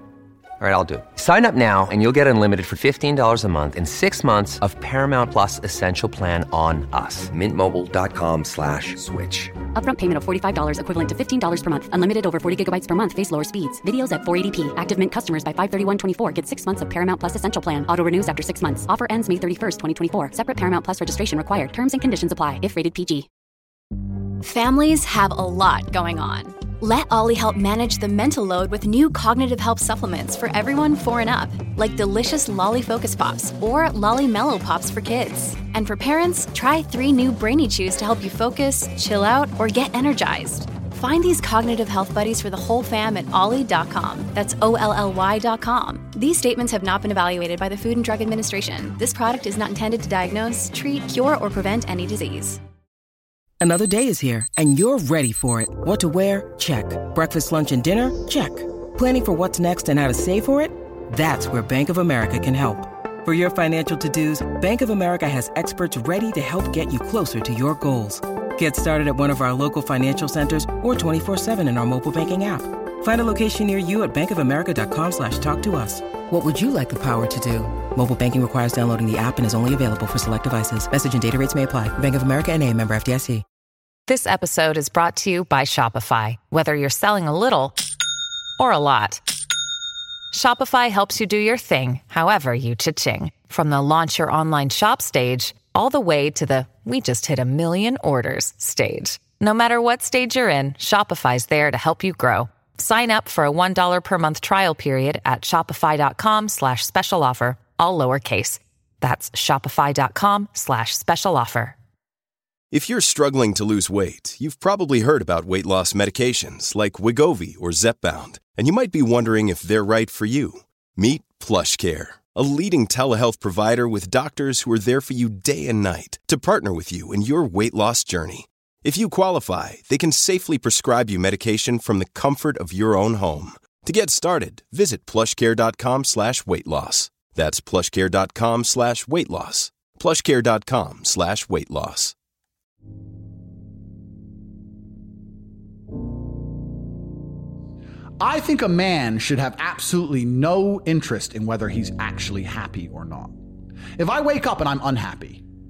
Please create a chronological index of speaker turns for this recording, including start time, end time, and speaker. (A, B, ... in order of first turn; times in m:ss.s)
0:00.6-0:09.0 A
0:08.9-0:23.3 B
0:24.4-0:52.6 C
0:53.6-1:23.4 D
1:24.1-1:27.8 E
1:28.6-1:29.2 E
1:30.3-1:51.7 E
1:52.7-2:22.1 F
2:28.2-2:33.4 G
2:34.0-2:35.4 G